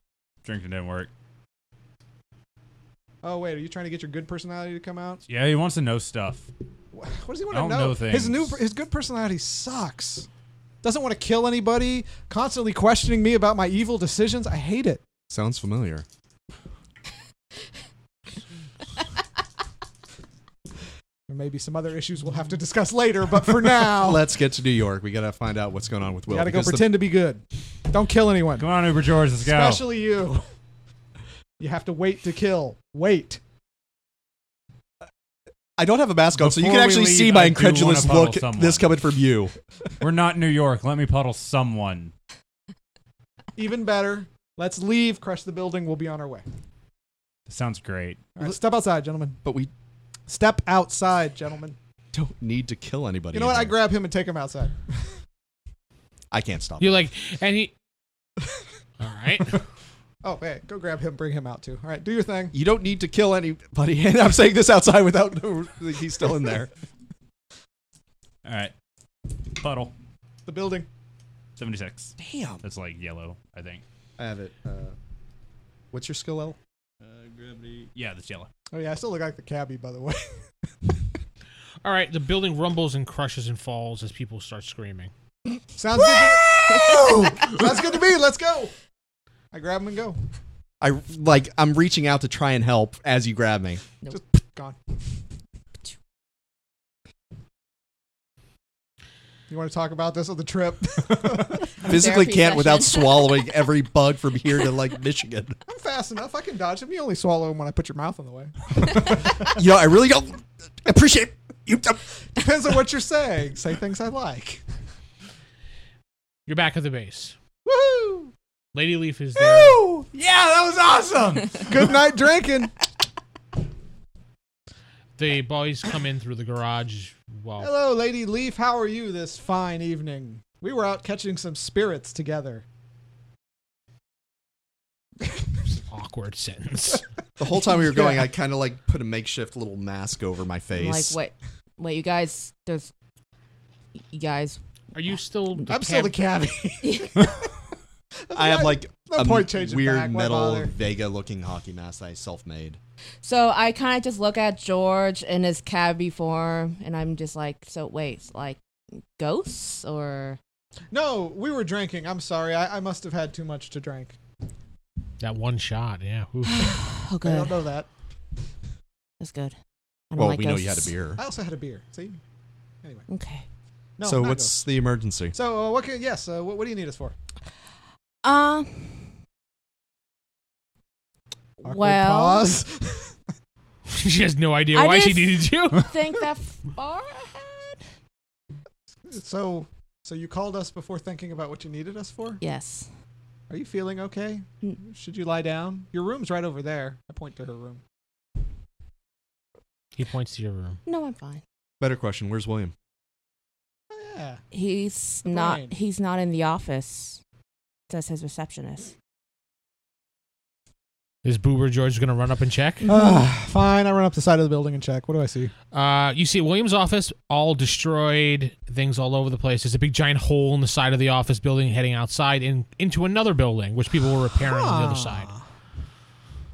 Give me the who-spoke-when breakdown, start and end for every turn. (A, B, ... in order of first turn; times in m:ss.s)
0:00.4-0:01.1 A
0:03.2-0:05.2 B
0:05.3-0:06.5 A
0:06.9-0:10.3 B
0:07.5-0:08.6 A
0:10.8-0:15.0 B
0:15.3-0:16.0 C
0:21.3-0:24.2 B
0:23.8-0:27.0 C
0:26.3-0:30.4 B
0:28.6-0:29.8 A
0:31.6-0:33.4 B
0:35.8-0:39.5 C
0:36.4-0:39.0 A
0:40.0-0:42.1 A
0:43.6-0:46.4 B
0:47.5-0:48.2 A
0:48.4-0:49.4 B
0:49.4-0:49.7 C
0:50.3-0:51.8 B
0:52.1-0:53.7 C
0:53.3-0:55.2 B
0:56.3-0:57.1 C
0:56.8-0:57.7 D
0:59.0-0:59.6 D
1:00.2-1:02.5 B
1:02.5-1:06.7 C
1:08.4-1:08.7 A
1:09.5-1:09.9 A
1:10.4-1:10.9 B
1:11.6-1:13.8 A
1:12.2-1:12.6 C
1:14.2-1:15.0 C
1:15.9-1:16.6 C
1:17.1-1:18.5 A
1:18.7-1:20.4 B
1:21.8-1:25.1 D
1:25.8-1:28.7 B
1:26.0-1:27.6 E
1:29.5-1:30.2 B
1:30.8-1:33.8 C
1:34.1-1:34.8 B
1:39.5-1:41.7 B
1:41.8-1:43.5 E
1:41.8-1:45.6 C
1:45.6-1:48.7 B
1:49.4-1:52.0 C
1:52.4-1:54.6 B
1:56.4-1:57.4 D
1:57.6-1:58.3 B
1:58.7-1:59.8 D
1:59.4-2:00.1 B
2:00.1-2:01.6 A
2:01.4-2:02.7 B
2:05.2-2:07.7 D
2:07.6-2:12.6 B
2:15.8-2:17.0 D
2:17.4-2:21.2 C
2:17.5-2:18.3 B
2:20.7-2:22.9 E
2:24.1-2:24.6 E
2:24.9-2:26.2 D
2:25.7-2:27.5 B
2:26.8-2:27.1 E
2:28.3-2:30.7 B
2:28.3-2:32.8 C
2:33.2-2:38.6 E
2:39.1-2:40.4 E
2:40.9-2:44.2 B
2:45.2-2:46.6 D
2:46.4-2:47.5 E
2:47.2-2:47.9 B
2:49.2-2:49.5 E
2:50.1-2:51.0 E
2:50.2-2:51.2 C
2:51.2-2:52.2 B
2:53.1-2:53.4 E
2:54.0-2:54.6 B
2:54.0-2:55.3 C
2:55.3-2:57.2 B
2:58.2-2:59.1 E
3:01.6-3:02.5 E
3:01.6-3:03.2 B
3:03.9-3:05.9 D
3:04.7-3:07.8 E
3:09.0-3:12.4 B
3:12.4-3:12.9 E
3:13.5-3:17.8 B
3:20.0-3:20.8 D
3:20.8-3:21.4 E
3:21.8-3:22.7 C
3:23.9-3:24.4 B
3:24.5-3:27.2 E
3:25.2-3:25.7 B
3:27.9-3:28.9 E
3:31.2-3:32.8 D
3:32.8-3:33.2 E
3:32.8-3:35.5 B
3:35.7-3:45.3 D
3:44.4-3:45.4 B